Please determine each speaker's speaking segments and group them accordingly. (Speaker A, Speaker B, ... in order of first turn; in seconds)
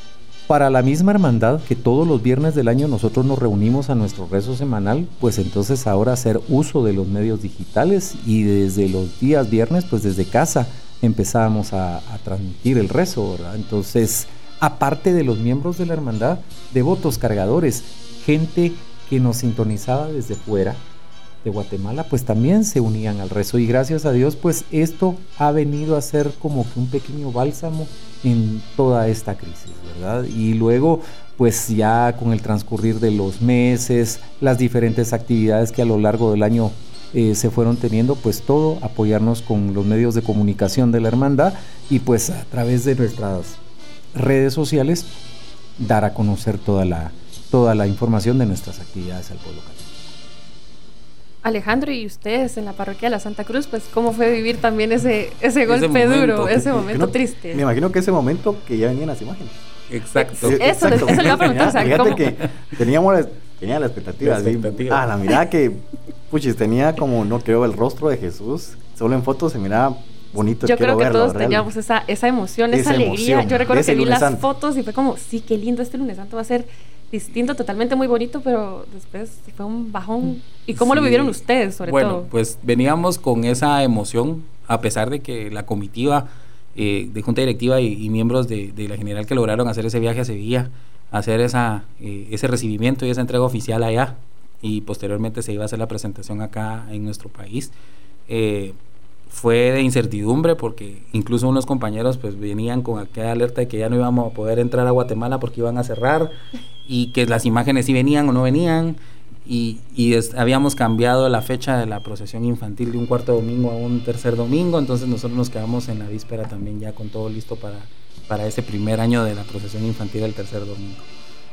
Speaker A: 0.5-20.8, 21.4-43.6, 44.1-45.1, 45.8-50.1
Speaker B: 51.4-57.6, 60.4-62.2, 70.6-82.3
Speaker C: 55.6-56.8, 59.9-62.5, 64.2-65.1, 80.7-97.7, 98.3-98.8, 99.3-121.0
Speaker D: 56.7-59.6, 60.4-71.7, 72.7-74.4